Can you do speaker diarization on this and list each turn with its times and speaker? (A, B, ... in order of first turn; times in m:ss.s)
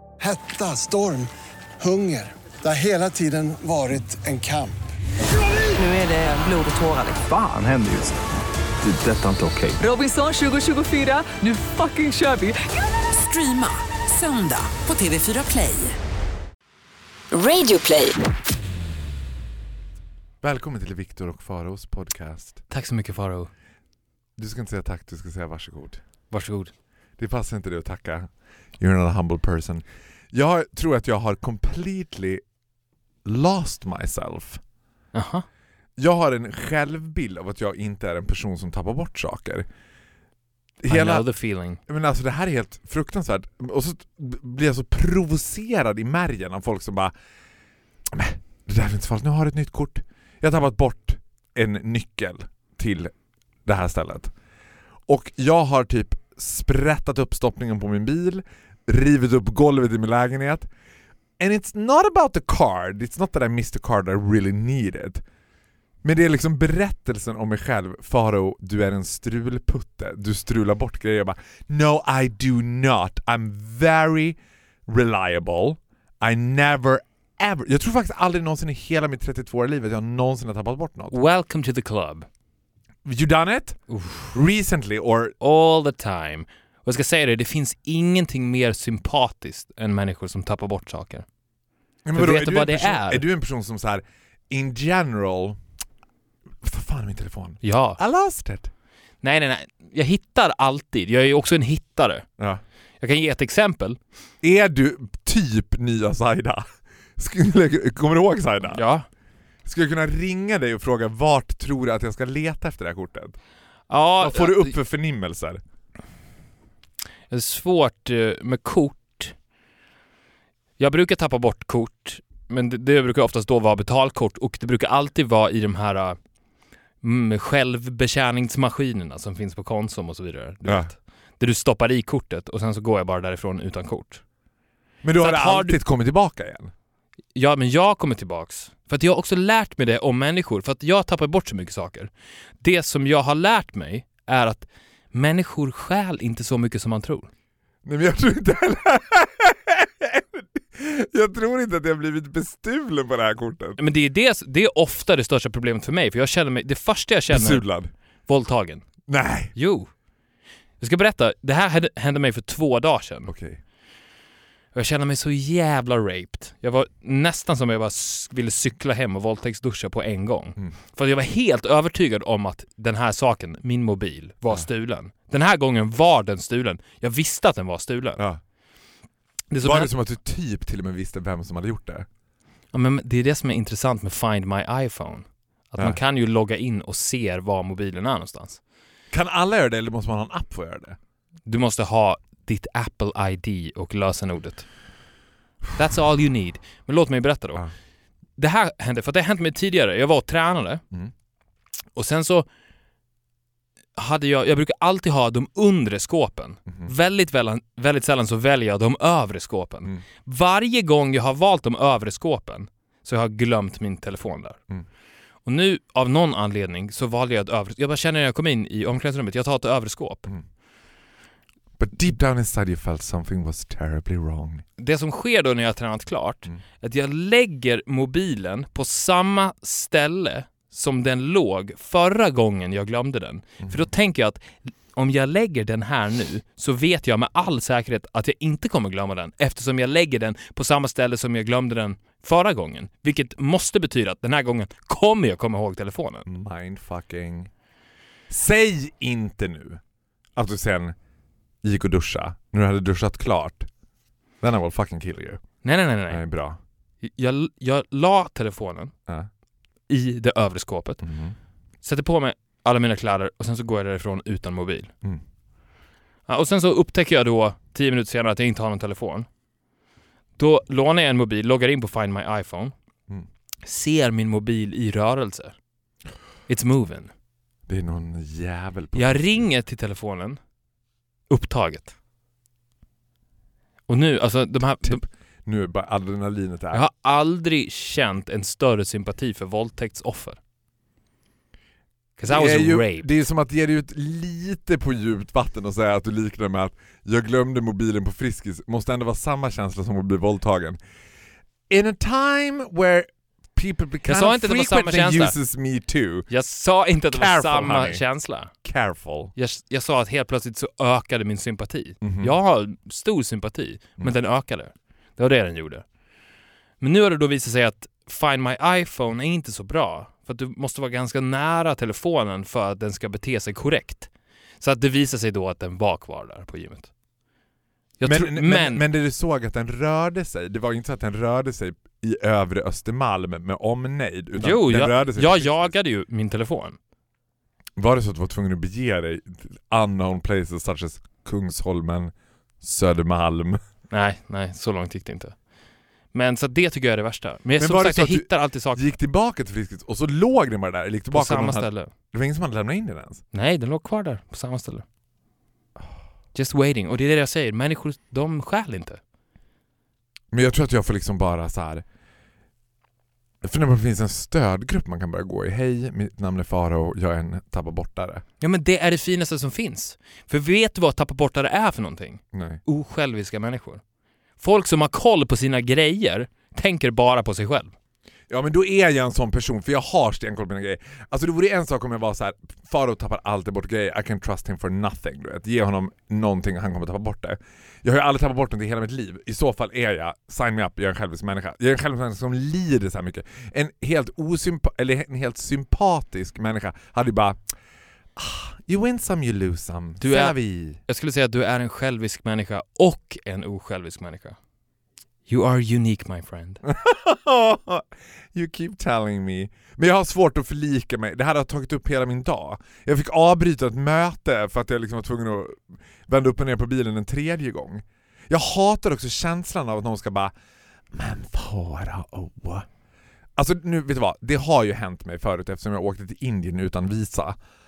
0:00.2-0:04.8 A
0:05.4-0:07.3 B
0:07.2-0:08.2 C
0:08.8-0:09.8 C
0:09.8-0:16.0 B
0:17.3-0:18.2 B
0:20.4-0:22.6 D
0:22.7-0:23.5 E
0:24.4-0:26.0 D
0:26.3-0:26.7 E
0:27.2-0:32.4 D
0:33.2-0:34.6 D
0:35.1-0:35.5 E
0:36.0-0:39.7 D
0:40.8-0:41.2 D
0:40.9-0:41.8 E
0:41.9-0:47.1 D
0:48.1-0:53.1 D
0:53.6-0:54.3 D
0:55.1-1:00.7 D
1:01.4-1:05.2 D
1:06.0-1:21.2 D
1:21.1-1:22.3 E
1:23.0-1:25.4 D
1:23.9-1:24.4 E
1:25.4-1:31.2 E
1:32.0-1:35.6 D
1:32.1-1:33.2 E
1:36.6-1:38.7 D
1:37.6-1:38.0 E
1:39.2-1:42.2 E
1:43.0-1:44.0 E
1:44.4-1:48.8 D
1:48.7-1:49.1 E
1:49.6-1:53.4 D
1:53.9-1:54.7 E
1:54.2-1:55.6 D
1:57.3-1:59.4 E
2:00.8-2:06.2 E
2:07.0-2:14.2 E
2:10.6-2:10.9 D
2:15.0-2:16.7 D
2:15.2-2:15.8 E
2:17.4-2:27.3 E
2:27.8-2:33.8 D
2:33.8-2:37.6 E
2:37.3-2:37.9 D
2:38.3-2:38.9 E
2:39.1-2:39.5 D
2:39.6-2:39.9 E
2:40.8-2:43.3 E
2:43.3-2:43.6 D
2:44.7-2:58.2 E
2:59.5-2:59.9 E
2:59.6-3:02.1 D
3:02.7-3:08.6 E
3:09.1-3:11.0 D
3:11.5-3:14.7 E
3:15.7-3:17.6 E
3:18.4-3:20.8 E
3:22.0-3:22.5 E
3:24.0-3:34.6 E
3:35.5-3:40.3 E
3:41.8-3:44.6 D
3:44.8-4:06.3 E
4:06.3-4:07.5 D
4:08.3-4:09.8 D
4:10.4-4:11.0 D
4:11.6-4:13.7 D
4:14.4-4:15.4 D
4:15.6-4:16.2 E
4:16.1-4:16.6 D
4:17.0-4:18.9 E
4:19.9-4:21.0 E
4:21.0-4:21.4 D
4:21.8-4:24.9 E
4:26.3-4:29.3 E
4:30.4-4:32.7 E
4:33.6-4:35.6 E
4:36.5-4:37.1 E
4:37.7-4:39.5 D
4:38.9-4:40.4 E
4:41.3-4:41.9 E
4:43.9-4:45.0 E
4:44.8-4:46.8 D
4:46.7-4:50.4 E
4:52.2-4:53.1 E
4:52.3-5:00.8 D
5:01.7-5:06.3 D
5:04.1-5:05.3 E
5:06.3-5:08.5 E
5:07.1-5:08.0 D
5:08.6-5:09.3 D
5:09.4-5:15.8 E
5:12.0-5:12.3 D
5:16.8-5:26.9 E
5:28.0-5:28.8 E
5:28.0-5:35.7 D
5:34.4-5:36.8 E
5:37.8-5:43.6 D
5:43.9-5:45.4 E
5:46.1-5:48.9 E
5:47.6-5:53.2 D
5:51.1-5:51.9 E
5:53.3-5:54.8 E
5:56.3-5:59.0 E
6:00.3-6:01.8 D
6:03.4-6:08.2 D
6:08.4-6:13.8 E
6:12.3-6:12.6 D
6:14.4-6:17.7 E
6:18.3-6:37.4 D
6:38.2-6:40.8 D
6:40.0-6:44.4 E
6:45.3-6:46.6 E
6:46.6-7:00.3 D
7:00.9-7:02.7 D
7:03.4-7:07.4 D